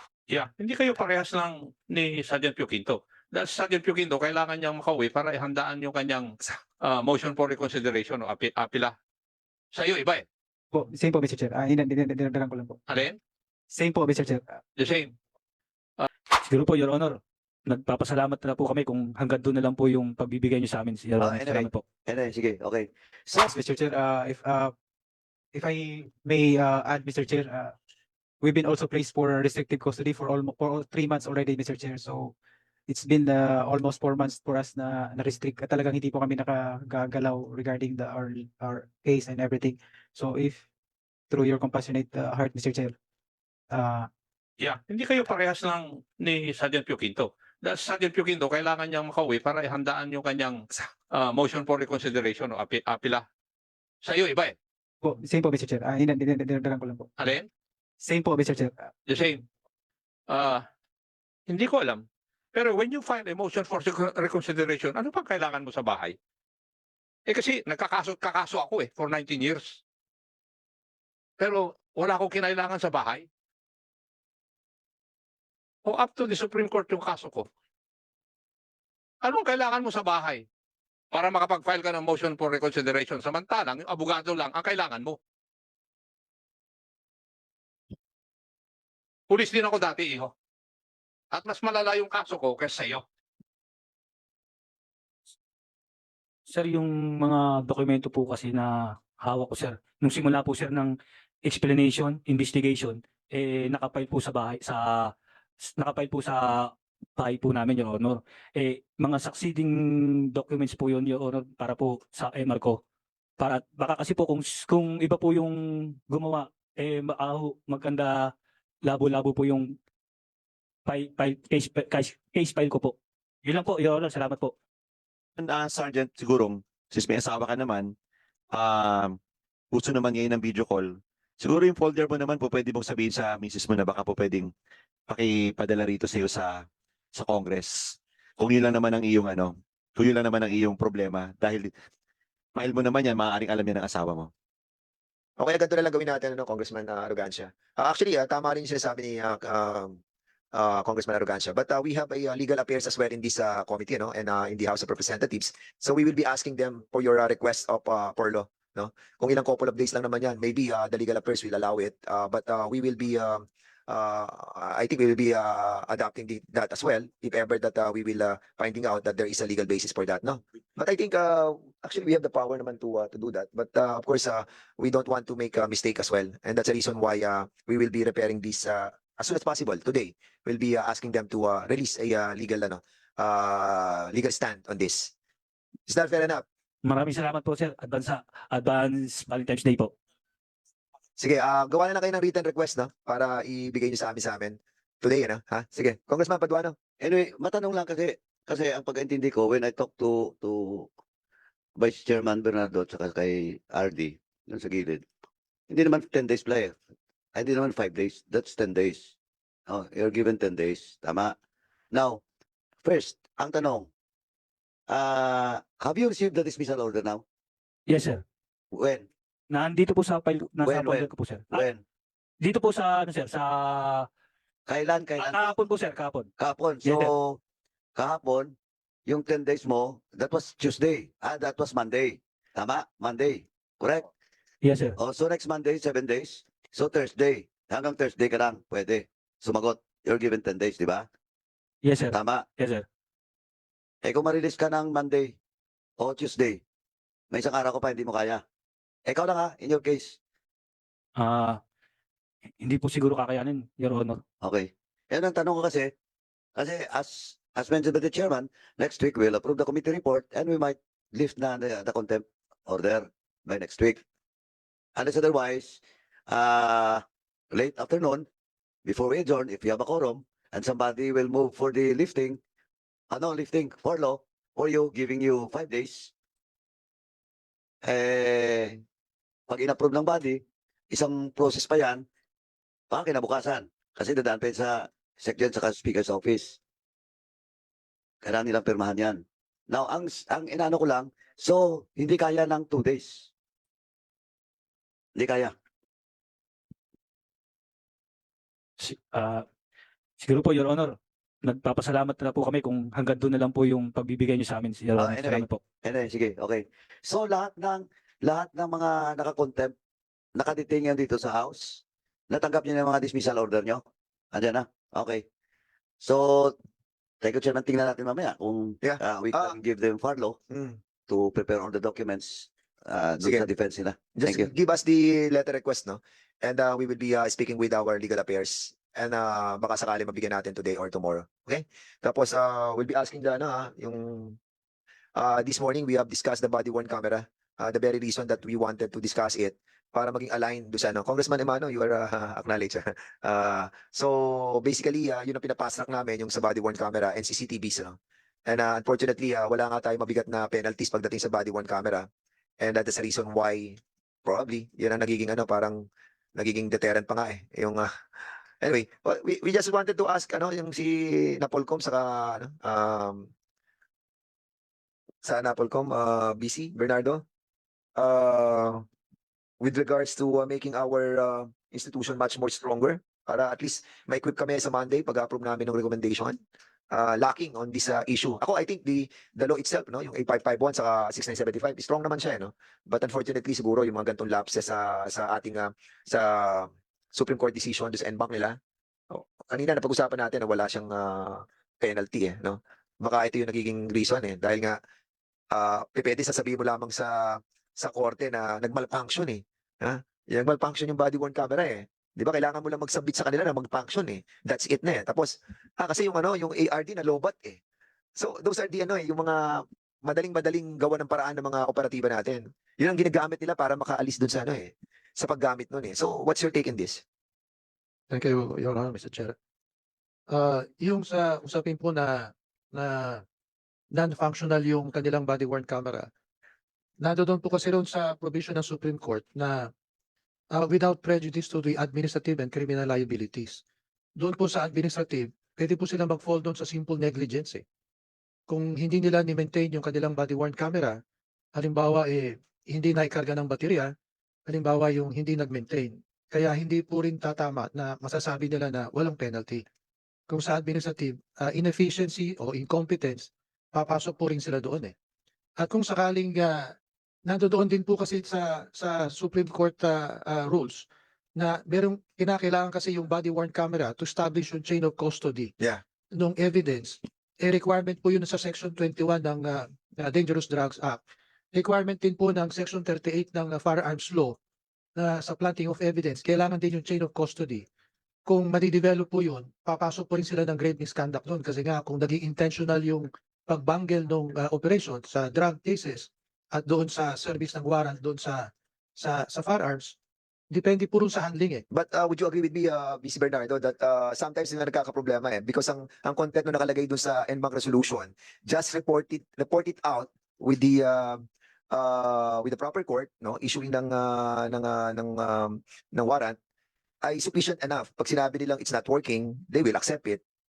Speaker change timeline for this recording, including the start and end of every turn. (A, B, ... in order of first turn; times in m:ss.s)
0:00.3-0:06.3 A
0:06.8-0:08.9 A
0:09.7-0:10.2 A
0:10.7-0:12.8 B
0:13.7-0:14.6 B
0:14.8-0:15.1 A
0:16.4-0:21.8 C
0:21.2-0:23.4 D
0:23.5-0:24.7 B
0:25.5-0:27.7 B
0:28.4-0:32.3 B
0:32.9-0:40.6 B
0:41.3-0:42.9 B
0:43.7-0:44.1 B
0:44.6-0:50.6 A
0:51.2-0:53.2 A
0:54.0-0:54.5 A
0:55.0-0:57.1 B
0:58.0-0:58.9 B
1:01.5-1:02.0 A
1:02.5-1:06.1 A
1:07.3-1:09.7 A
1:11.4-1:13.2 A
1:15.8-1:17.4 A
1:19.2-1:20.4 A
1:21.1-1:25.2 A
1:29.3-1:30.3 A
1:31.3-1:33.0 A
1:36.5-1:40.9 C
1:41.4-1:45.1 C
1:45.6-1:49.7 C
1:50.3-1:52.8 C
1:53.4-1:58.3 C
1:58.8-1:59.8 C
2:00.8-2:04.5 C
2:05.4-2:07.9 E
2:08.5-2:09.2 E
2:09.7-2:14.5 E
2:15.1-2:21.7 E
2:22.6-2:24.3 E
2:25.4-2:30.0 F
2:30.5-3:05.1 F
3:05.9-3:06.4 F
3:06.8-3:09.9 C
3:11.2-3:16.8 F
3:17.0-3:20.9 D
3:21.8-3:25.1 D
3:25.7-3:26.8 D
3:27.3-3:29.1 D
3:29.7-3:31.3 D
3:31.9-3:32.2 D
3:32.8-3:33.9 D
3:34.9-3:37.2 D
3:37.9-3:38.2 C
3:38.7-3:39.1 D
3:39.5-3:41.7 C
3:40.6-3:41.8 D
3:42.4-3:44.1 C
3:44.7-3:45.5 D
3:45.2-3:46.3 C
3:46.4-3:47.4 D
3:46.8-3:47.1 C
3:48.0-3:48.5 D
3:49.1-3:54.1 D
3:54.6-3:54.9 C
3:55.0-4:01.1 D
4:01.8-4:02.8 C
4:02.1-4:02.4 D
4:04.0-4:05.3 D
4:06.0-4:06.6 D
4:07.3-4:08.4 D
4:09.0-4:10.2 D
4:11.2-4:11.6 C
4:12.6-4:14.2 C
4:14.4-4:15.9 D
4:16.6-4:24.0 D
4:25.0-4:28.2 D
4:28.8-4:32.4 D
4:33.1-4:36.1 D
4:37.8-4:38.8 D
4:39.5-4:42.0 D
4:42.9-4:46.6 D
4:48.2-4:53.3 D
4:55.1-4:55.5 D
4:58.8-4:59.4 C
5:00.2-5:05.6 C
5:05.0-5:09.7 D
5:10.3-5:15.2 D
5:16.0-5:16.5 D
5:17.2-5:20.4 D
5:18.8-5:19.6 F
5:20.5-5:20.8 F
5:21.1-5:24.5 D
5:23.2-5:23.5 F
5:24.1-5:34.4 F
5:35.2-5:52.1 F
5:52.6-5:57.9 F
5:58.6-6:03.3 F
6:05.2-6:07.2 F
6:08.0-6:08.8 F
6:09.6-6:16.4 F
6:16.9-6:28.6 F
6:29.1-6:34.8 F
6:35.5-6:47.6 F
6:48.2-6:57.0 F
6:58.1-6:59.3 G
7:00.3-7:03.2 G
7:03.9-7:06.1 G
7:07.0-7:09.7 G
7:10.5-7:13.6 G
7:14.2-7:17.6 G
7:18.5-7:21.0 G
7:21.5-7:23.9 G
7:24.5-7:29.6 G
7:30.3-7:34.9 G
7:35.6-7:36.7 G
7:37.2-7:40.8 G
7:41.4-7:45.5 G
7:46.1-7:51.0 G
7:51.5-7:54.4 G
7:54.9-7:57.6 G
7:58.2-8:10.0 G
8:10.5-8:11.6 G
8:11.7-8:26.4 F
8:27.0-8:30.2 F